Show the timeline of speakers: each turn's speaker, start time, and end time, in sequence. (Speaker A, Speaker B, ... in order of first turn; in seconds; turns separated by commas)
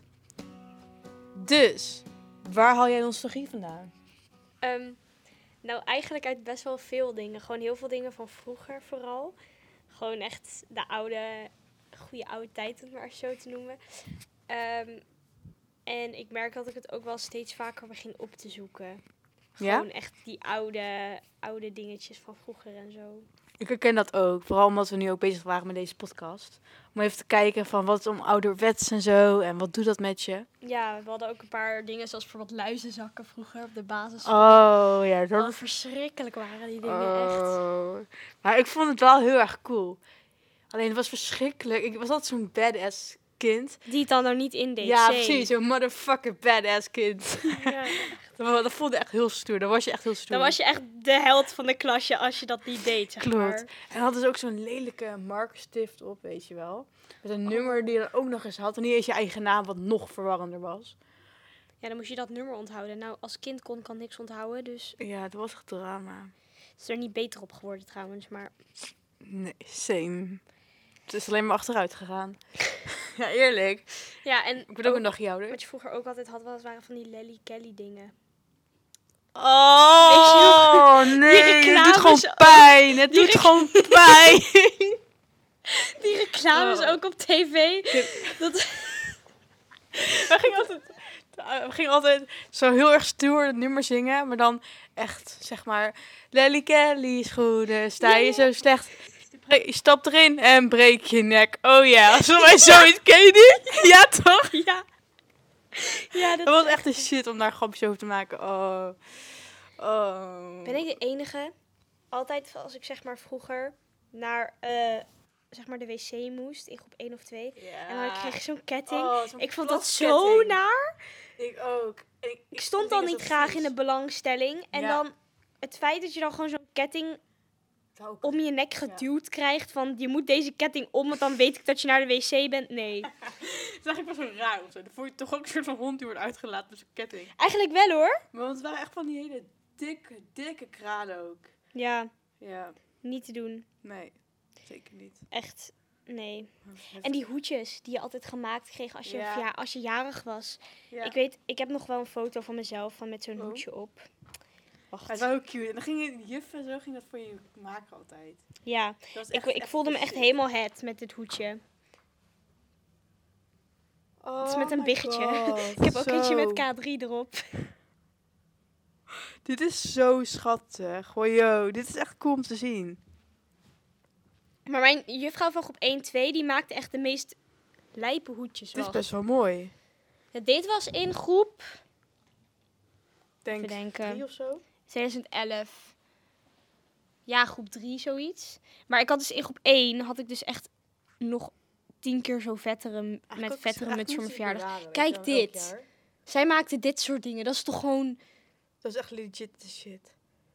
Speaker A: 1.3-3.9, Speaker B: 4.6-5.0, Speaker B: 5.6-9.3, Speaker B: 9.9-13.8, Speaker B: 14.5-15.0, Speaker B: 15.8-19.0, Speaker B: 19.6-23.2, Speaker A: 19.6-19.9, Speaker A: 23.6-30.5, Speaker B: 30.6-34.6, Speaker A: 34.2-35.6, Speaker B: 35.3-37.6, Speaker A: 36.8-40.0, Speaker A: 40.7-43.8, Speaker B: 43.9-45.5, Speaker A: 44.8-50.5, Speaker B: 47.5-48.1, Speaker B: 50.3-53.7, Speaker A: 53.2-61.0, Speaker B: 57.5-58.0, Speaker B: 61.8-65.0, Speaker A: 65.0-66.3, Speaker B: 66.8-68.5, Speaker A: 69.2-70.4, Speaker A: 71.1-74.2, Speaker B: 74.2-78.1, Speaker A: 74.7-75.6, Speaker A: 79.3-85.0, Speaker B: 80.0-84.2, Speaker B: 85.7-89.1, Speaker A: 86.5-87.0, Speaker A: 87.9-88.4, Speaker A: 89.9-104.6, Speaker B: 98.0-98.5, Speaker B: 102.5-102.9, Speaker B: 104.5-104.8, Speaker B: 105.7-107.0, Speaker A: 106.1-109.2, Speaker A: 109.8-110.9, Speaker B: 110.6-111.5, Speaker B: 112.1-120.9, Speaker A: 117.5-120.6, Speaker A: 121.4-123.7, Speaker B: 122.5-127.2, Speaker A: 124.7-125.0, Speaker A: 128.0-129.1, Speaker B: 128.2-133.1, Speaker A: 133.2-137.3, Speaker B: 137.3-138.2, Speaker A: 138.3-141.5, Speaker B: 141.7-142.1, Speaker A: 142.4-142.8, Speaker B: 143.0-143.7, Speaker A: 143.8-145.2, Speaker B: 145.3-154.1, Speaker A: 146.6-147.2, Speaker A: 149.0-149.4, Speaker A: 150.9-151.2, Speaker A: 153.4-153.6, Speaker B: 154.9-155.3, Speaker A: 155.1-158.5, Speaker B: 158.6-161.6, Speaker A: 159.1-160.3, Speaker A: 164.2-166.6, Speaker B: 164.4-167.7, Speaker A: 169.4-173.0, Speaker B: 174.7-177.4, Speaker B: 177.9-179.0, Speaker A: 178.7-179.7, Speaker B: 180.3-181.8, Speaker A: 183.4-184.6, Speaker B: 183.6-184.2, Speaker B: 184.8-185.9, Speaker B: 187.2-195.7, Speaker A: 193.3-195.8, Speaker B: 196.3-198.2, Speaker A: 198.8-200.1